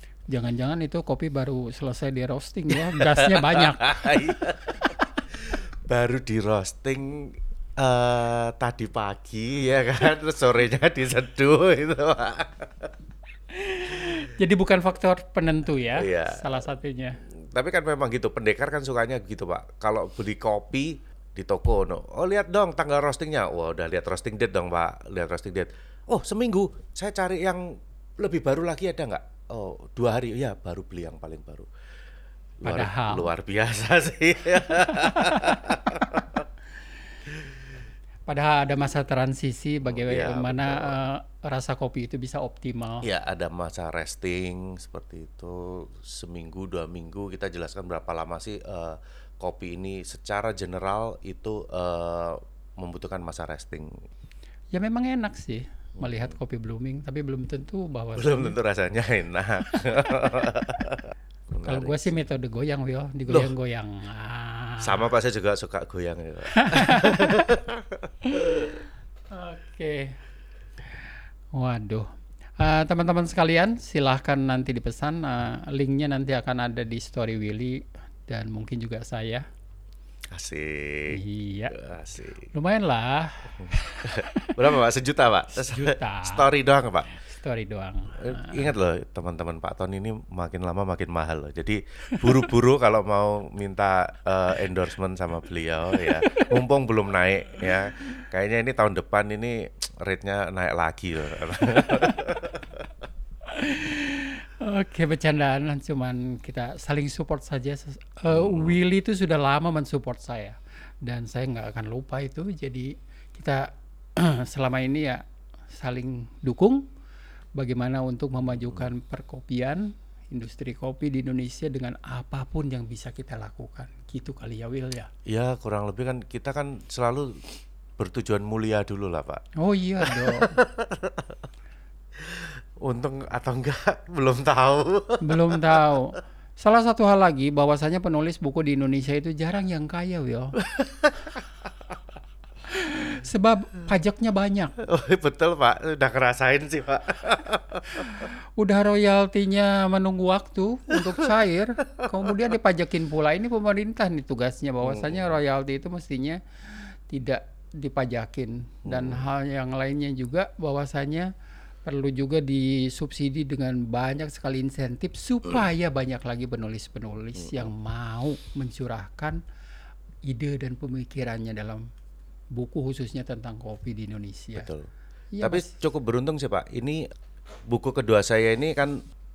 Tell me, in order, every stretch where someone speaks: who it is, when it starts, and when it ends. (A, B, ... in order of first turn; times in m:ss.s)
0:00.3-0:04.3 A
0:02.9-0:12.9 B
0:13.5-0:17.2 A
0:15.9-0:16.7 B
0:17.4-0:31.7 B
0:32.6-0:36.4 B
0:32.6-0:33.3 A
0:34.7-0:36.0 A
0:38.3-0:43.1 A
0:39.8-0:41.0 B
0:43.0-0:54.0 B
0:54.7-0:58.6 A
0:56.0-0:56.3 B
0:58.2-1:02.2 B
0:59.7-1:00.5 A
1:01.6-1:05.1 A
1:03.3-1:03.5 B
1:04.8-1:08.8 B
1:06.5-1:07.5 A
1:08.2-1:10.2 A
1:11.5-1:19.4 A
1:20.3-1:22.5 B
1:21.1-1:21.8 A
1:22.5-1:24.6 A
1:23.6-1:27.1 B
1:25.5-1:26.5 A
1:27.1-1:28.7 A
1:28.2-1:42.8 B
1:35.9-1:36.6 A
1:41.8-1:42.3 A
1:43.4-1:56.8 A
1:48.3-1:48.8 B
1:57.6-2:05.1 A
1:58.5-1:58.9 B
2:05.2-2:07.4 B
2:08.0-2:09.4 B
2:09.6-2:10.5 A
2:10.0-2:11.4 B
2:12.2-2:16.0 B
2:15.2-2:20.5 A
2:20.6-2:22.0 B
2:22.7-2:24.7 A
2:24.8-2:28.3 B
2:28.0-2:41.3 A
2:30.9-2:31.3 B
2:32.0-2:32.2 B
2:34.8-2:35.3 B
2:38.8-2:39.2 B
2:41.8-2:49.4 A
2:47.4-2:47.7 B
2:50.2-2:51.9 A
2:52.5-2:54.7 A
2:54.5-2:54.9 B
2:55.3-2:55.8 A
2:55.4-2:57.1 B
2:57.7-2:59.0 B